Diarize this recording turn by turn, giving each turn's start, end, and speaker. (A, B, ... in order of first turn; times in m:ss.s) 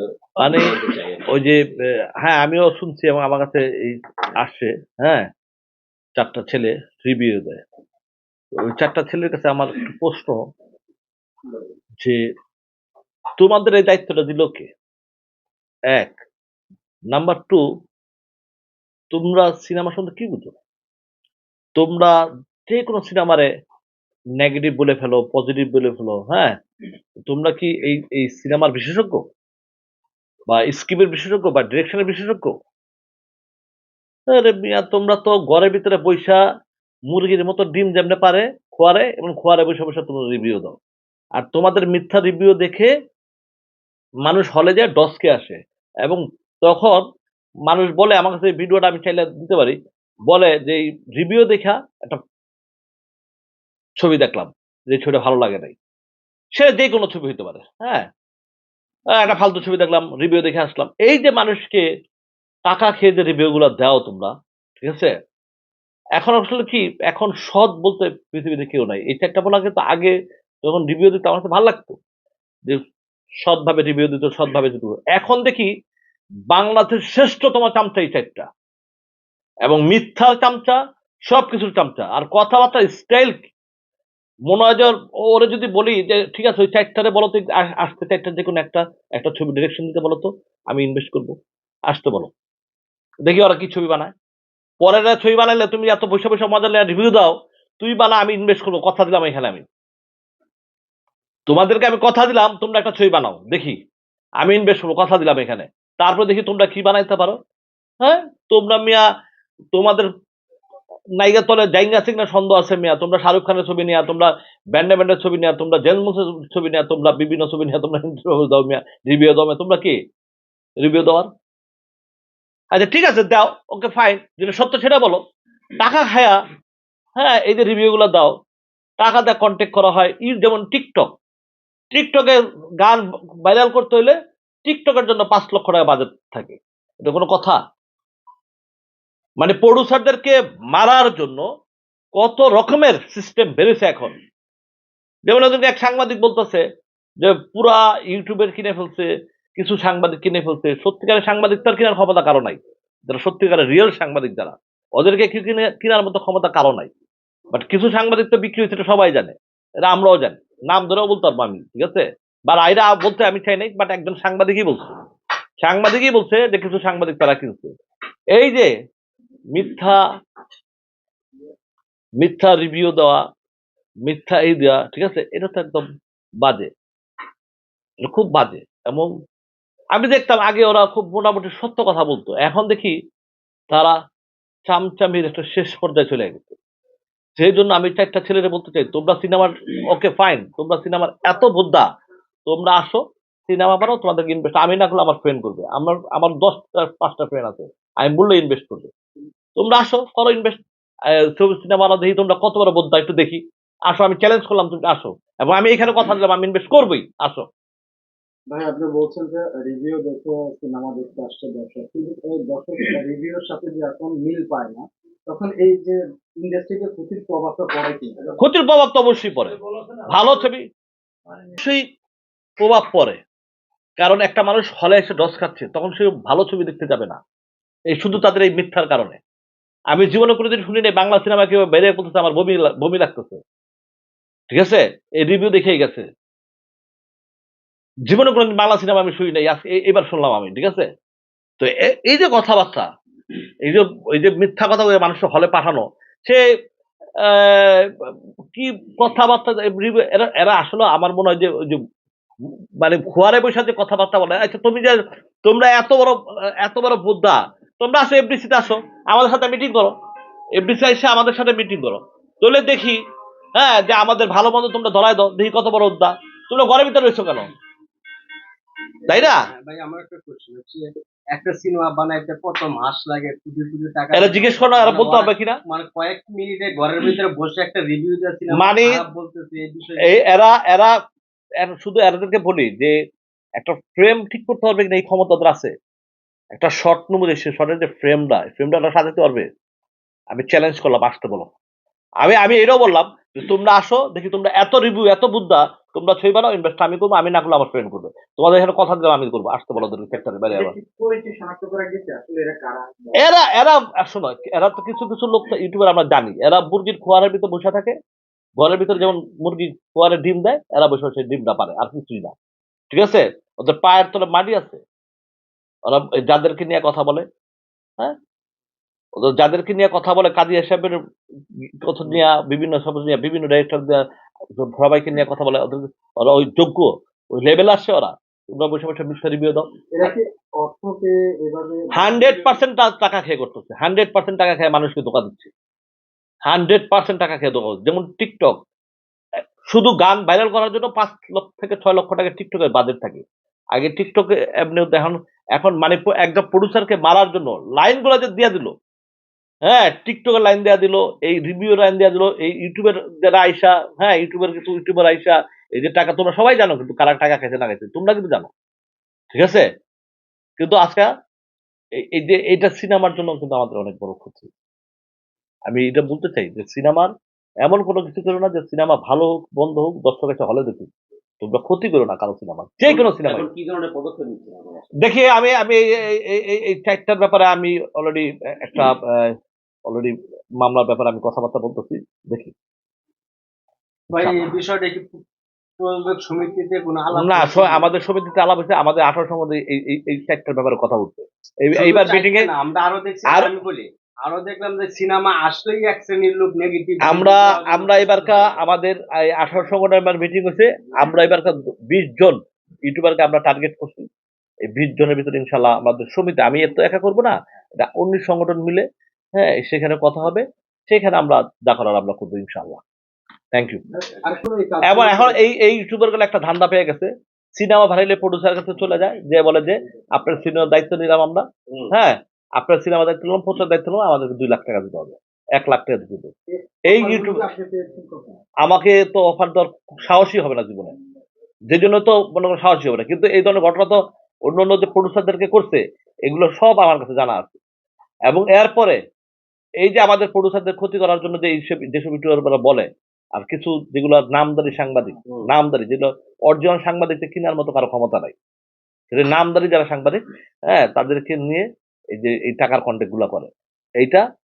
0:00.4-0:00.7 A
0:00.5-0:01.7 B
0:01.3-0:01.6 A
0:02.2-0:05.3 A
0:06.2-0:07.6 A
0:08.6-0:10.4 A
0:13.4-0:14.7 A
0:15.9-0:16.2 A
0:17.1-0:17.6 A
0:19.1-0:20.5 A
0:21.8-0:22.1 A
0:22.7-0:23.5 A
0:24.4-0:26.6 A
0:27.3-0:29.2 A
0:30.5-0:32.5 A
0:34.3-0:36.4 A
0:37.1-0:40.8 A
0:41.4-0:42.9 A
0:44.3-0:47.0 A
0:47.7-0:49.8 A
0:50.3-0:52.2 A
0:54.0-0:55.7 A
0:56.5-0:58.1 A
0:59.2-1:01.9 A
1:02.7-1:05.1 A
1:06.2-1:12.0 A
1:13.4-1:15.7 A
1:16.5-1:18.5 A
1:19.6-1:23.5 A
1:24.5-1:31.3 A
1:31.9-1:32.3 A
1:33.3-1:34.1 A
1:34.8-1:39.6 A
1:41.5-1:43.8 A
1:44.4-1:47.4 A
1:48.0-1:49.0 A
1:49.7-1:50.1 A
1:51.2-2:00.0 A
2:00.8-2:01.3 A
2:02.7-2:05.2 A
2:05.8-2:06.4 A
2:07.2-2:08.3 A
2:09.0-2:11.1 A
2:11.9-2:14.2 A
2:14.7-2:17.6 A
2:19.4-2:21.4 A
2:22.2-2:24.2 A
2:25.3-2:26.6 A
2:27.2-2:36.9 A
2:37.5-2:44.9 A
2:45.6-2:47.7 A
2:48.3-2:48.7 A
2:49.5-2:50.0 A
2:52.2-2:53.2 A
2:54.1-2:55.9 A
2:56.4-2:56.7 A
2:58.0-2:59.1 A
3:00.0-3:02.9 A
3:04.7-3:06.6 A
3:07.4-3:11.8 A
3:12.5-3:18.9 A
3:19.6-3:27.5 A
3:28.5-3:38.4 C
3:38.4-3:39.6 A
3:40.1-3:40.6 A
3:42.6-3:43.2 A
3:44.0-3:47.2 A
3:47.9-3:49.2 A
3:49.9-3:53.4 A
3:54.5-3:56.0 A
3:58.1-4:00.8 A
4:01.6-4:02.9 A
4:03.6-4:06.4 A
4:07.2-4:11.8 A
4:12.8-4:19.9 A
4:20.6-4:23.0 A
4:23.6-4:27.5 A
4:29.1-4:40.2 D
4:29.1-4:29.4 A
4:34.1-4:35.6 A
4:38.5-4:39.0 A
4:40.0-4:41.0 A
4:41.6-4:43.0 A
4:43.6-4:45.7 A
4:46.5-4:49.5 A
4:50.3-4:51.5 A
4:52.2-5:00.8 A
5:00.5-5:03.2 C
5:03.2-5:08.0 A
5:08.6-5:12.3 A
5:12.9-5:14.8 A
5:15.9-5:17.2 A
5:19.2-5:21.0 A
5:21.8-5:24.0 A
5:24.6-5:30.1 A
5:30.0-5:32.6 C
5:31.9-5:35.5 A
5:36.5-5:38.6 A
5:39.7-5:43.2 A
5:43.7-5:48.7 A
5:49.7-5:58.5 A
5:59.3-5:59.6 A
6:00.6-6:01.1 A
6:02.0-6:04.5 A
6:05.7-6:07.1 A
6:07.6-6:10.9 A
6:11.4-6:13.5 A
6:12.9-6:14.8 B
6:15.0-6:19.3 A
6:19.9-6:22.5 A
6:24.1-6:25.2 D
6:24.1-6:24.5 A
6:25.8-6:27.9 D
6:27.1-6:32.5 A
6:31.7-6:38.6 D
6:33.3-6:33.5 A
6:37.0-6:44.1 A
6:44.7-6:48.8 A
6:49.4-6:52.8 A
6:53.5-6:53.8 A
6:54.0-6:55.4 C
6:54.9-7:06.3 A
7:06.6-7:08.4 C
7:06.9-7:07.5 A
7:08.6-7:10.9 A
7:11.7-7:17.6 A
7:18.3-7:19.0 A
7:19.8-7:28.3 A
7:29.1-7:31.6 A
7:32.2-7:34.2 A